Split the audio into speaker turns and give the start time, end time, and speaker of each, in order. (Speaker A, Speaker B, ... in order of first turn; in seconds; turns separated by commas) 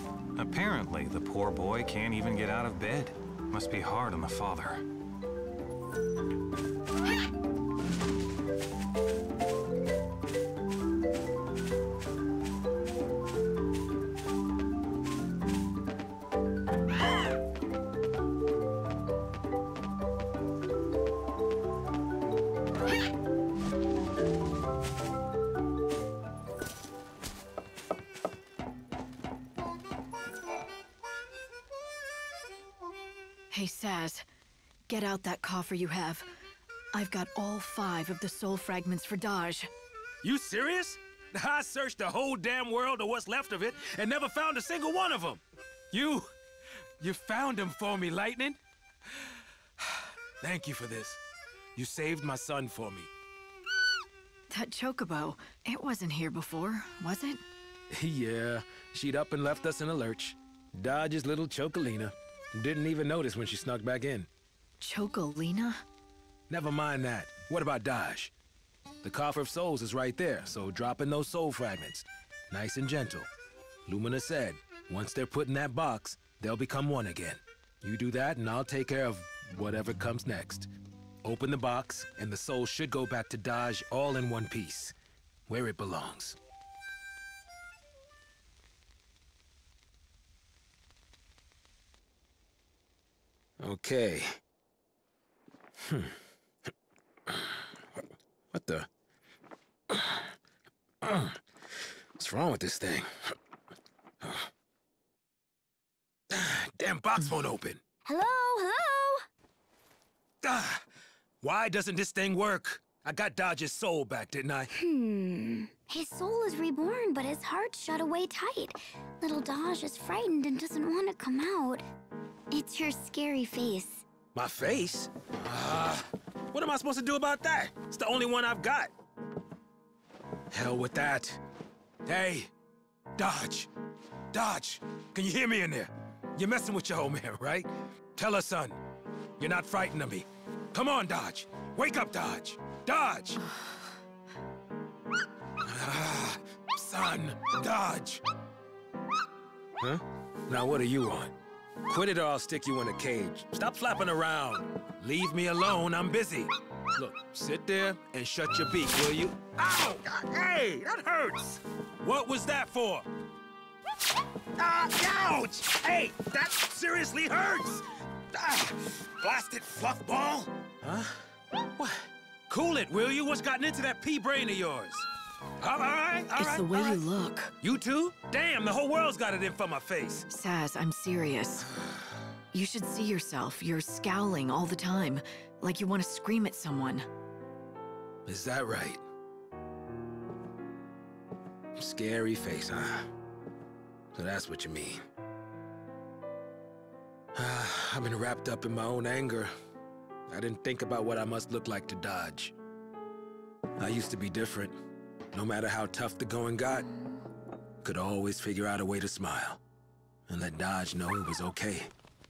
Speaker A: 0.4-4.8, Speaker B: 33.5-34.2, Speaker B: 34.9-36.3, Speaker B: 36.9-39.7, Speaker C: 40.2-45.4, Speaker C: 45.9-46.3, Speaker C: 47.0-48.6, Speaker C: 50.4-51.2, Speaker C: 51.8-53.1, Speaker B: 54.5-57.4, Speaker C: 57.9-64.3, Speaker B: 64.8-65.8, Speaker C: 66.5-68.3, Speaker C: 69.0-73.3, Speaker C: 73.9-80.7, Speaker C: 81.2-84.9, Speaker C: 85.5-86.4, Speaker C: 93.6-94.3, Speaker C: 95.8-96.1, Speaker C: 97.3-97.6, Speaker C: 98.5-98.9, Speaker C: 99.9-100.3, Speaker C: 101.0-101.4, Speaker C: 102.2-103.3, Speaker C: 104.2-104.5, Speaker C: 106.3-107.8, Speaker D: 108.0-109.2, Speaker C: 110.4-110.8, Speaker C: 111.4-114.7, Speaker D: 114.8-121.9, Speaker D: 122.5-124.1, Speaker C: 124.3-128.9, Speaker C: 130.5-131.4, Speaker C: 132.1-132.5, Speaker C: 133.2-133.7, Speaker C: 134.3-138.8, Speaker C: 139.4-143.4, Speaker C: 145.6-148.2, Speaker C: 149.8-151.3, Speaker C: 151.9-163.1, Speaker C: 164.6-167.8, Speaker C: 168.3-171.2, Speaker C: 171.8-175.1, Speaker C: 175.6-177.0, Speaker B: 176.4-177.5, Speaker C: 177.6-180.3, Speaker B: 180.3-181.7, Speaker B: 182.5-187.1, Speaker C: 188.3-189.0, Speaker C: 191.8-193.1, Speaker C: 194.1-195.0, Speaker C: 197.3-199.5, Speaker C: 200.3-202.5, Speaker C: 203.8-204.8, Speaker C: 205.3-206.9, Speaker C: 207.8-209.6, Speaker C: 210.3-211.9